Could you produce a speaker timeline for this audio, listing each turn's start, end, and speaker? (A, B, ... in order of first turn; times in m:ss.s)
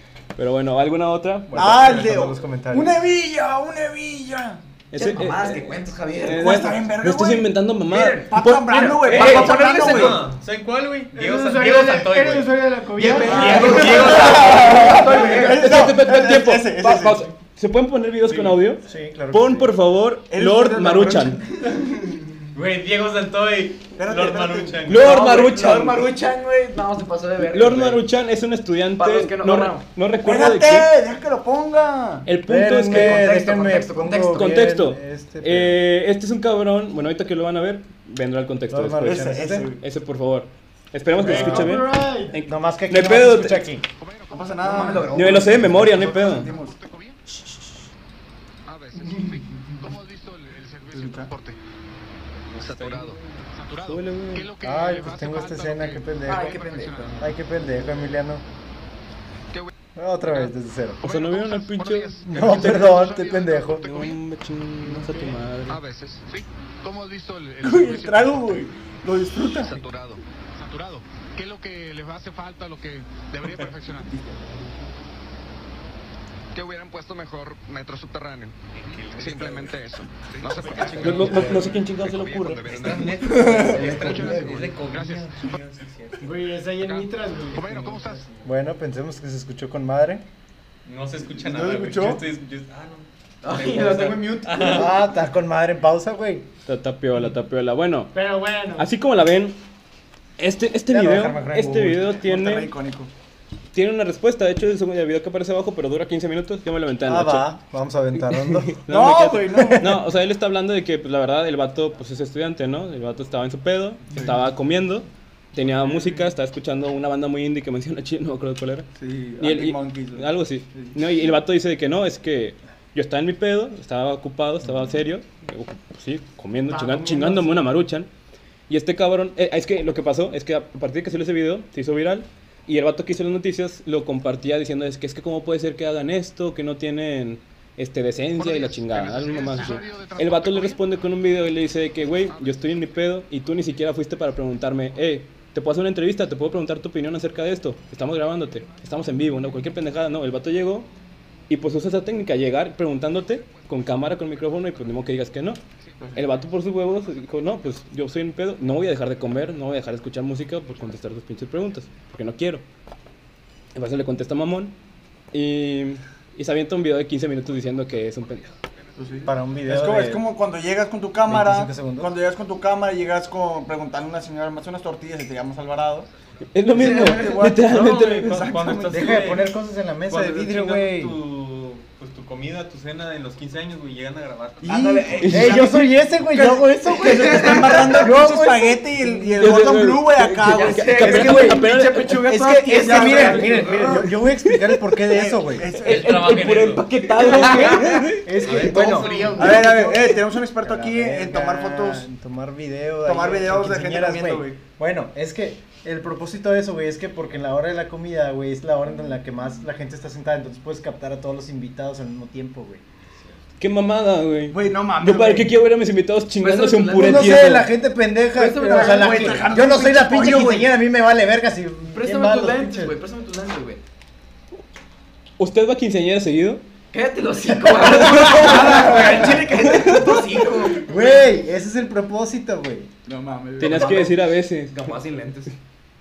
0:00.4-0:01.9 A
0:01.5-0:03.0 B
0:01.5-0:04.6 C
0:04.9-0:05.7 A
0:04.9-0:06.8 D
0:06.2-0:09.6 A
0:06.3-0:10.2 C
0:07.9-0:10.2 D
0:09.3-0:14.8 E
0:11.1-0:14.4 F
0:13.0-0:15.8 D
0:13.0-0:17.3 C
0:15.0-0:21.4 A
0:18.5-0:19.8 B
0:20.3-0:21.6 C
0:22.5-0:25.2 E
0:24.0-0:24.9 C
0:24.9-0:26.0 A
0:24.9-0:28.0 D
0:27.4-0:30.9 A
0:29.0-0:29.8 D
0:30.2-0:32.3 C
0:32.3-0:33.4 A
0:32.4-0:35.8 B
0:32.9-0:34.5 D
0:34.3-0:43.7 A
0:38.7-0:39.7 B
0:39.0-0:39.8 C
0:41.2-0:42.4 F
0:41.2-0:41.7 B
0:42.4-0:43.8 B
0:43.9-0:45.0 G
0:44.3-0:46.8 C
0:44.6-0:45.8 D
0:45.1-0:46.5 A
0:45.9-0:47.2 G
0:48.7-0:51.6 G
0:49.0-0:49.4 F
0:50.9-0:51.3 C
0:52.5-0:53.2 E
0:52.5-0:58.1 G
0:53.8-0:54.5 A
0:54.6-0:56.6 B
0:56.3-0:57.2 D
0:57.2-0:58.4 B
1:00.0-1:01.0 B
1:00.2-1:04.2 G
1:01.0-1:03.0 A
1:02.3-1:03.9 B
1:03.8-1:05.8 A
1:04.9-1:05.4 F
1:05.7-1:08.7 G
1:07.6-1:09.8 C
1:09.4-1:14.4 G
1:16.5-1:25.7 G
1:18.8-1:19.8 E
1:20.4-1:21.5 E
1:21.0-1:22.7 A
1:21.2-1:21.7 B
1:22.6-1:26.3 E
1:23.3-1:23.8 C
1:23.6-1:24.4 D
1:26.2-1:28.2 F
1:26.8-1:28.3 G
1:28.4-1:30.2 B
1:30.9-1:35.0 E
1:31.2-1:32.2 C
1:33.4-1:34.9 D
1:34.6-1:36.5 B
1:36.7-1:38.2 A
1:38.1-1:38.9 F
1:38.8-1:39.6 A
1:40.4-1:42.7 A
1:40.9-1:42.2 B
1:42.0-1:43.1 C
1:43.7-1:47.5 A
1:47.0-1:48.9 B
1:48.4-1:58.9 A
1:48.9-1:50.1 C
1:49.5-1:50.0 B
1:59.0-2:01.2 C
1:59.4-2:08.1 A
2:06.7-2:07.6 F
2:08.7-2:30.9 A
2:18.3-2:21.5 G
2:22.1-2:23.1 G
2:28.5-2:29.9 G
2:31.5-2:35.6 A
2:33.1-2:37.9 G
2:36.2-2:42.6 A
2:38.8-2:39.5 G
2:40.6-2:42.0 G
2:43.8-2:44.8 A
2:45.3-2:48.5 A
2:47.5-2:49.3 G
2:49.0-2:56.1 C
2:49.2-2:50.3 B
2:51.3-2:52.1 B
2:56.5-2:58.5 A
2:56.7-2:59.4 C
2:56.7-2:57.4 D
2:57.8-2:59.5 E
2:58.9-3:01.2 B
3:00.1-3:05.2 E
3:04.6-3:11.1 C
3:04.6-3:05.7 D
3:05.2-3:05.7 A
3:05.3-3:09.6 B
3:06.9-3:08.1 D
3:09.3-3:12.6 A
3:10.4-3:14.1 D
3:11.0-3:15.8 B
3:12.7-3:13.8 C
3:14.5-3:14.9 A
3:15.1-3:16.3 C
3:15.8-3:18.4 A
3:15.8-3:17.8 E
3:17.2-3:18.1 D
3:18.1-3:32.8 B
3:18.4-3:19.7 E
3:19.0-3:19.3 F
3:19.3-3:22.1 C
3:23.0-3:24.6 C
3:33.6-3:37.7 A
3:34.5-3:35.5 C
3:36.4-3:37.4 D
3:36.9-3:42.9 B
3:38.4-3:39.4 D
3:38.6-3:40.8 C
3:41.9-3:43.8 D
3:45.4-3:46.6 A
3:46.9-3:50.9 D
3:47.7-3:49.4 B
3:47.8-3:50.2 A
3:50.7-3:52.9 B
3:53.1-3:54.1 C
3:53.6-3:54.8 A
3:53.6-3:54.1 D
3:54.7-3:55.5 D